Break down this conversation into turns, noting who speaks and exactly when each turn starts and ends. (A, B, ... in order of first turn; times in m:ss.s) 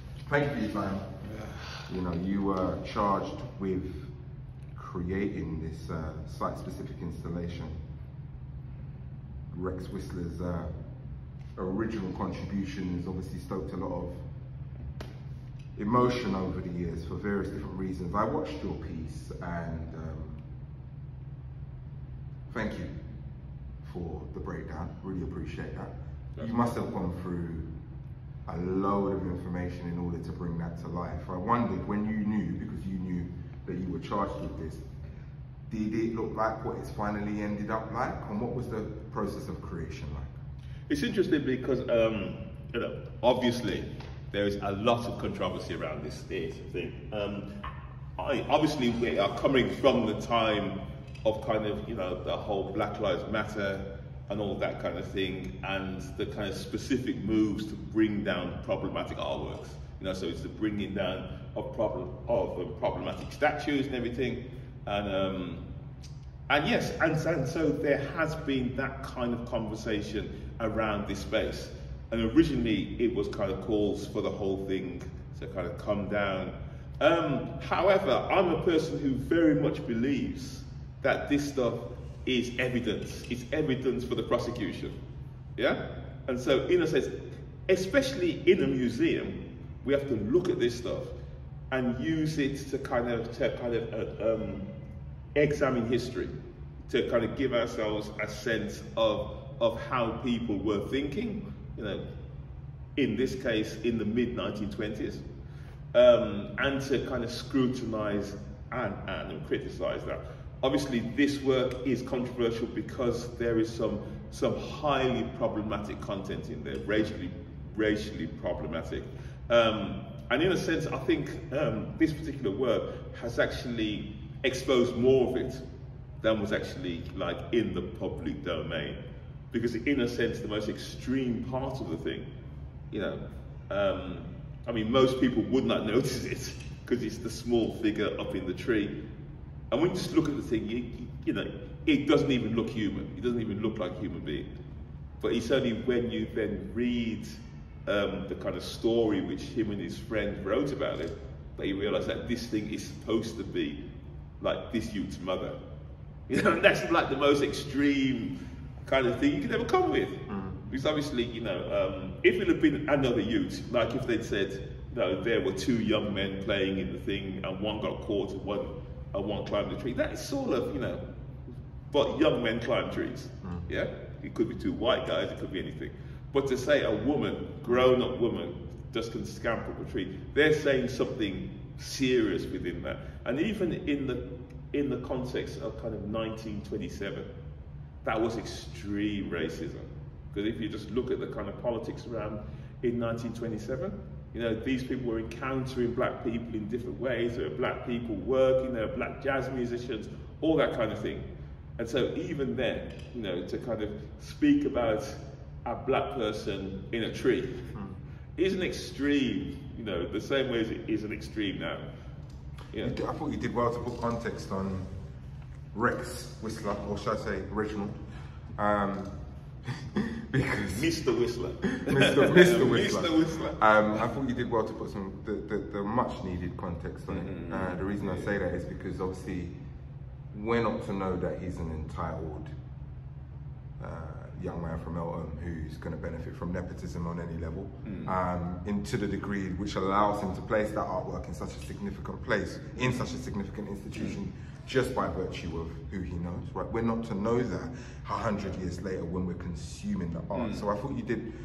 0:00.3-0:01.1 A
0:01.9-0:04.1 A
0:04.7-0:07.7 A
0:09.5-0:10.7 A
0:11.6-0:14.2 A
0:15.8-0:20.4 A
0:22.5-0:22.9 A
0:23.8-0:27.7 A
0:26.4-0:26.7 B
0:28.5-0:34.8 A
0:35.7-0:40.3 A
0:40.9-0:47.5 B
0:48.2-1:05.6 B
1:06.5-1:25.0 B
1:25.6-1:27.1 B
1:27.7-1:31.1 B
1:31.7-1:34.6 B
1:35.3-1:36.3 B
1:36.9-1:42.0 B
1:43.0-1:45.2 B
1:45.9-2:05.6 B
2:06.2-2:09.0 B
2:09.5-2:12.3 B
2:12.9-2:18.9 B
2:19.7-2:24.5 B
2:25.2-2:33.8 B
2:34.4-2:35.6 B
2:36.3-2:38.3 B
2:38.8-2:51.0 B
2:40.3-2:40.7 A
2:51.9-3:07.3 B
3:08.0-3:21.2 B
3:21.8-3:27.7 B
3:28.4-3:31.9 B
3:32.8-3:34.9 A
3:35.7-3:38.0 A
3:38.6-3:39.1 A
3:39.6-3:40.9 A
3:40.7-3:44.0 B
3:41.8-3:49.5 A
3:47.1-3:48.3 B
3:50.3-3:52.5 A
3:53.8-4:11.3 A
3:57.8-3:58.1 B
4:10.3-4:10.6 B